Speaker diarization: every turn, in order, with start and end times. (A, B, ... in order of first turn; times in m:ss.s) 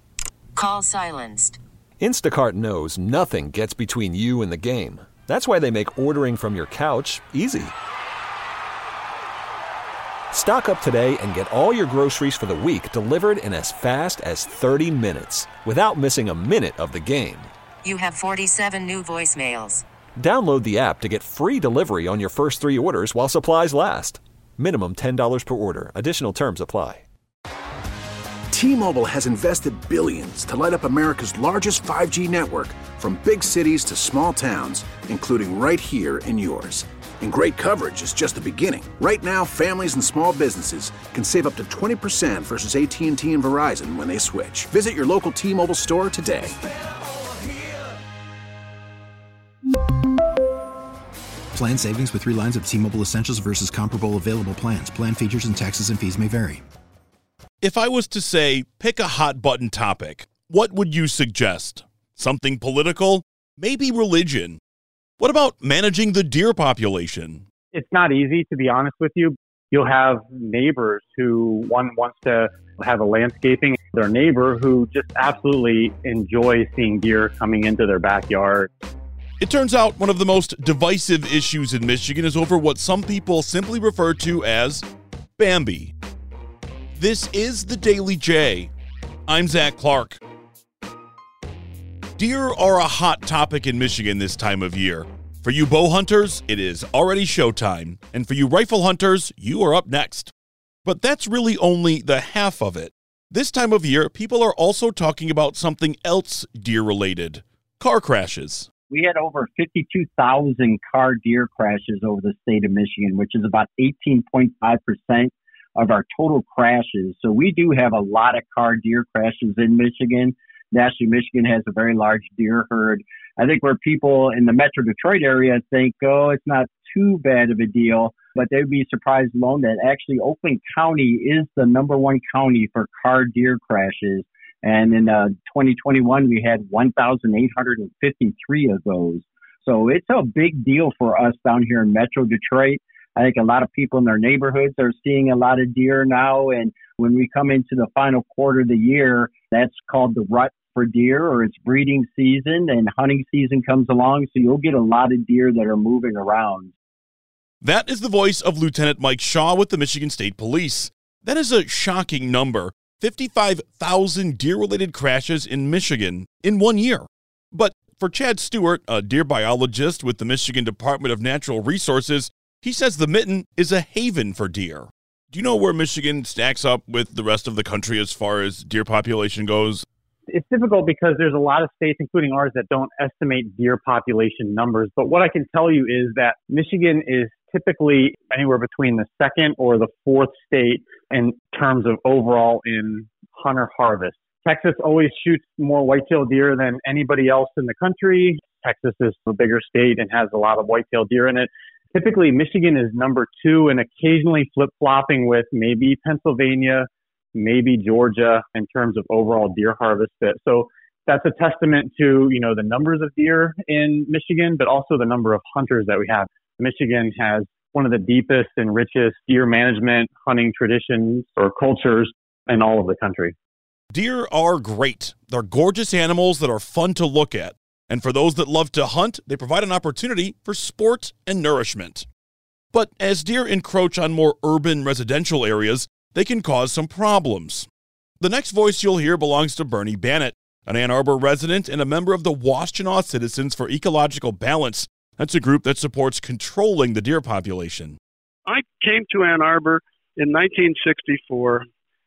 0:00.5-0:01.6 A
0:02.0-0:07.7 B
0:10.3-0:17.5 B
0:17.8-0:19.8 A
0:20.2-0:27.0 B
0:28.5-0:46.5 C
0:51.5-0:56.6 D
0:57.6-1:04.6 E
1:05.2-1:07.4 E
1:07.7-1:18.7 F
1:19.4-1:24.8 E
1:25.4-1:25.9 E
1:27.0-1:28.7 E
1:29.3-1:30.2 E
1:32.2-1:40.3 E
1:40.8-1:48.7 E
1:48.9-2:36.7 G
2:37.6-2:59.8 E
3:00.3-3:43.3 F
3:43.9-3:52.0 E
3:52.7-3:57.7 E
3:58.2-4:08.0 E
4:08.4-4:11.6 H